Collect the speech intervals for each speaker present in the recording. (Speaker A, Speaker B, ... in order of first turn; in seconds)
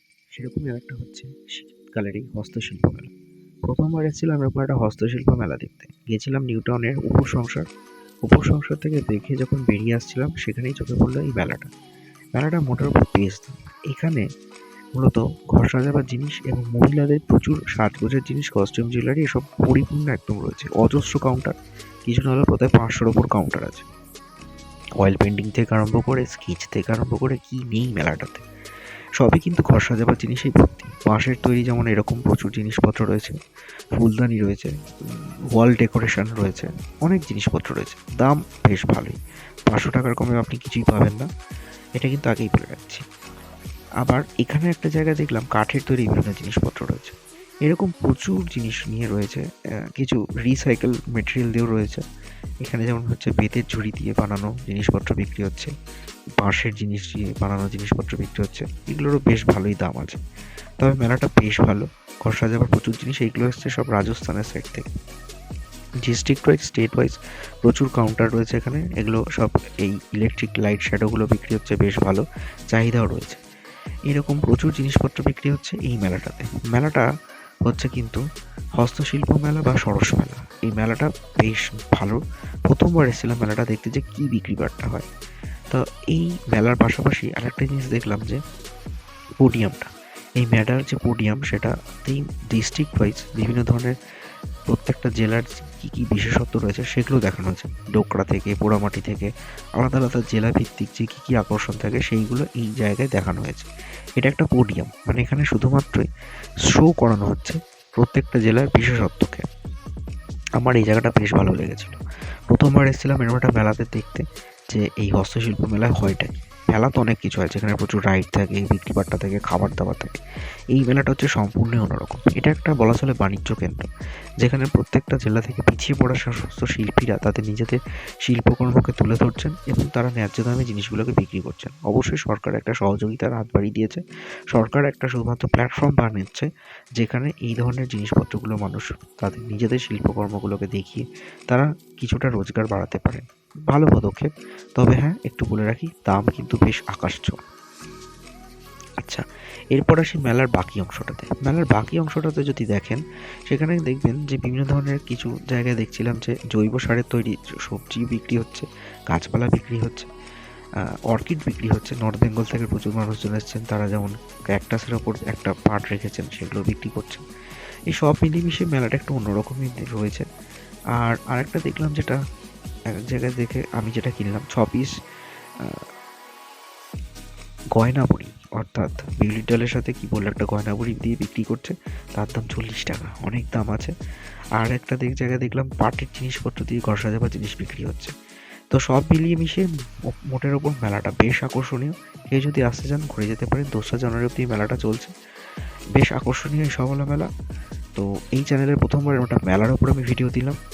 Speaker A: 0.3-3.1, 3.6-7.7, 8.2-11.7, 12.3-14.2, 14.9-21.5, 22.1-23.8, 25.0-28.4, 29.2-33.4, 34.0-34.7, 35.5-39.1, 39.7-41.3, 42.0-43.0, 44.0-47.1, 47.6-49.4, 50.0-52.0, 52.6-55.7, 56.4-60.2, 60.8-64.8, 66.0-73.4, 74.1-77.0, 77.6-78.2, 78.8-85.1, 85.7-88.4, 89.4-89.9, 90.4-93.9, 94.7-103.7, 104.2-106.0, 106.7-109.4, 110.6-112.0, 112.5-120.1, 120.7-123.8, 124.4-147.4, 149.0-160.1, 161.1-167.2, 167.9-170.2, 170.9-172.2, 172.9-174.9, 177.7-183.9, 184.6-188.1, 188.7-189.6, 190.1-195.1, 195.9-197.3, 197.9-200.6